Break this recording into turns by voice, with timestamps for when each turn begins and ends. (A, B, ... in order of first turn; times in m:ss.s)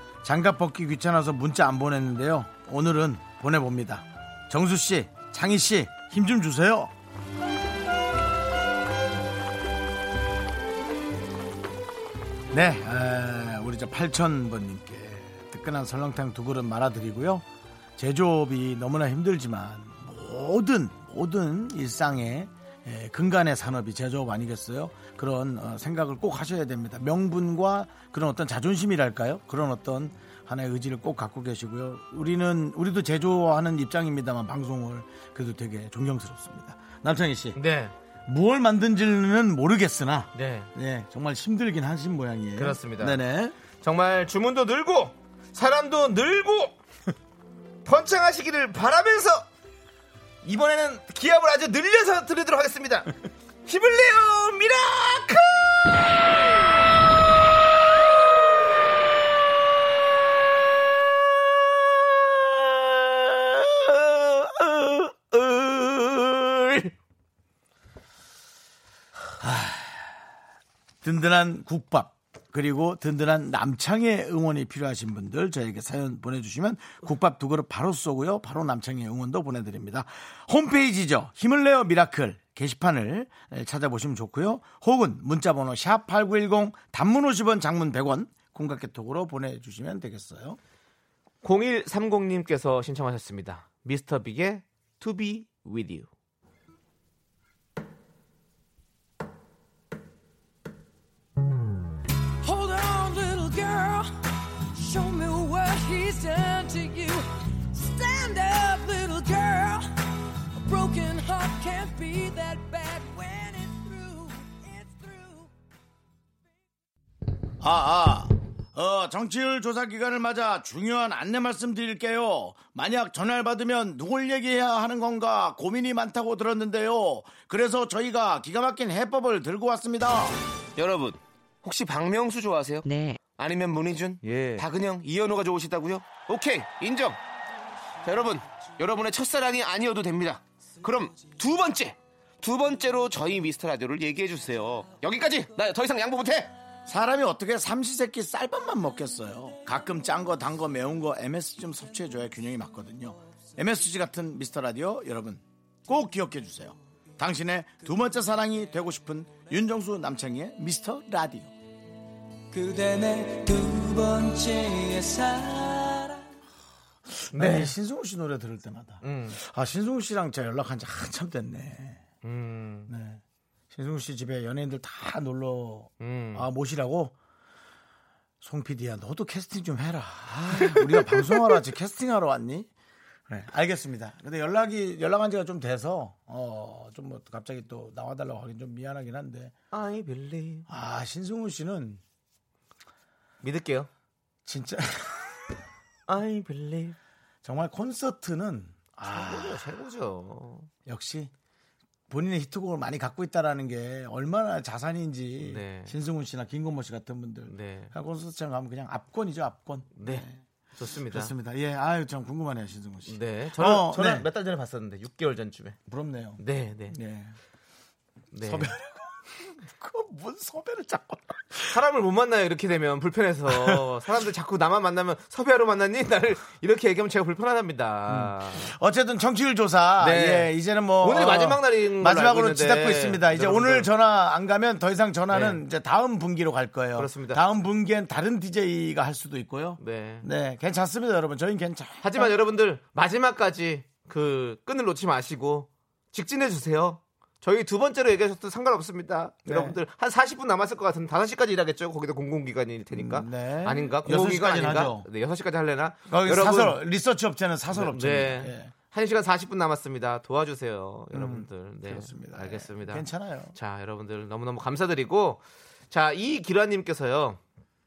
0:00.2-0:06.9 A
0:12.5-0:17.4 A
0:18.0-0:37.6 A
0:37.6-0:37.9 B
0:38.3-0:43.6 A
0:40.4-0:40.7 B
0:42.6-0:43.2 B
0:43.8-0:46.8 B
0:47.8-0:49.5 B
0:50.4-0:53.1 B
0:53.7-0:56.2 B
1:02.3-1:06.9 B
1:09.4-1:10.1 A
1:11.0-1:30.6 A
1:31.4-1:36.1 B
1:42.4-1:55.5 C
1:57.6-2:10.4 A
2:10.8-2:17.2 D
2:10.8-2:17.2 B
2:18.1-2:26.5 D
2:18.1-2:20.3 B
2:20.8-2:21.9 B
2:22.4-2:26.4 B
2:26.9-2:41.5 A
2:42.6-2:45.8 D
2:47.2-2:52.0 A
2:47.3-2:47.7 B
2:49.0-2:49.4 B
2:52.2-2:52.9 B
2:52.9-2:57.2 A
2:56.0-2:56.5 B
2:58.4-3:02.7 A
3:00.5-3:01.6 B
3:03.3-3:09.5 A
3:09.7-3:10.7 B
3:10.7-3:12.0 A
3:13.4-3:13.9 B
3:14.5-3:15.6 A
3:16.1-3:17.0 B
3:17.4-3:19.7 A
3:19.1-3:20.7 B
3:20.9-3:21.3 A
3:22.1-3:30.4 A
3:25.4-3:25.9 B
3:27.5-3:27.9 B
3:30.0-3:30.2 B
3:30.8-3:31.3 B
3:31.1-3:34.3 A
3:33.1-3:35.8 B
3:35.9-3:37.4 A
3:36.4-3:37.0 B
3:38.3-3:38.7 B
3:38.4-3:41.8 A
3:41.7-3:48.7 B
3:43.5-3:43.8 A
3:48.1-4:02.4 A
3:50.0-3:53.9 B
3:55.3-3:55.6 B
3:57.0-3:57.4 B
3:59.8-4:00.3 B
4:02.0-4:16.8 B
4:09.5-4:09.8 A
4:12.9-4:15.1 A
4:16.1-4:18.7 A
4:17.7-4:27.4 B
4:21.1-4:23.5 A